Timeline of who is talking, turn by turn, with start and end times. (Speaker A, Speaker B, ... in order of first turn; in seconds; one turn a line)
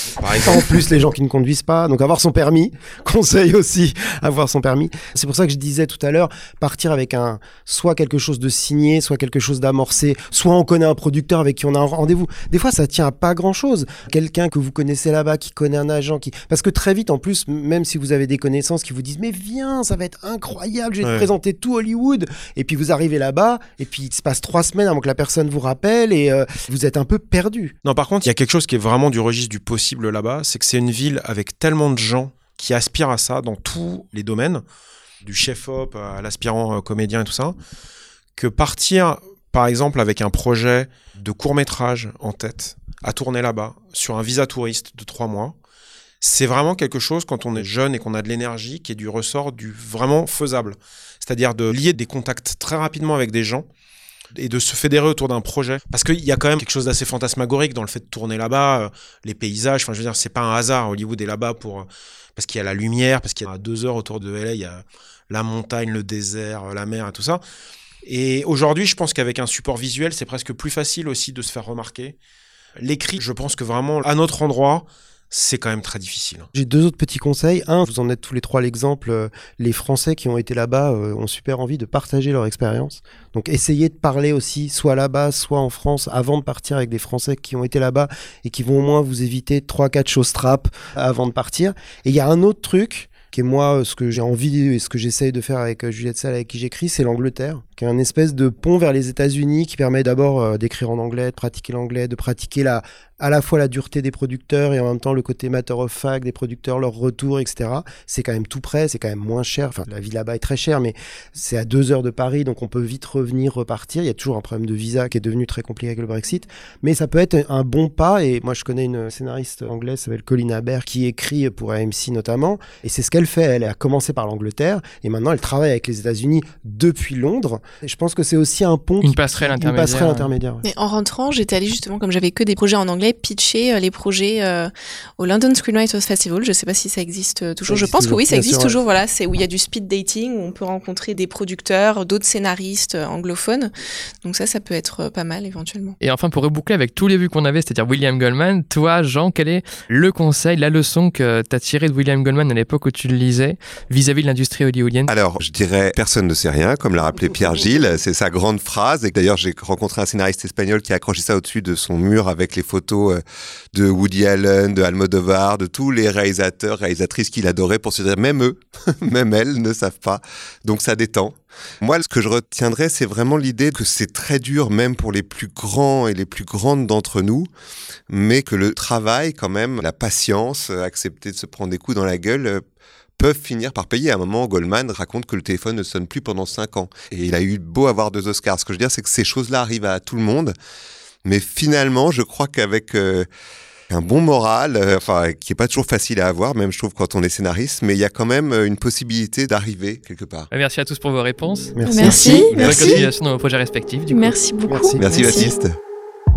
Speaker A: 0.1-0.8
Speaker B: 0.4-27.7
Speaker A: 21.0-21.3
Speaker A: 27.8-34.6
Speaker A: 35.2-37.5
Speaker A: 38.4-45.5
Speaker A: 46.2-53.6
Speaker A: 54.3-67.4
Speaker A: 68.0-72.2
Speaker A: 72.8-76.5
Speaker B: 76.5-130.6
Speaker C: 129.0-130.3
Speaker D: 130.6-143.7
Speaker B: 137.7-138.8
Speaker D: 144.2-146.0
Speaker C: 146.0-155.1
Speaker E: 155.1-177.5
Speaker E: 178.1-182.6
Speaker E: 183.2-190.5
Speaker E: 191.2-193.3
Speaker E: 193.9-200.5
Speaker C: 200.5-204.4
Speaker B: 201.8-203.1
Speaker F: 201.8-203.0
Speaker D: 202.1-202.4
Speaker F: 204.1-205.5
Speaker B: 204.7-205.2
Speaker E: 205.0-205.7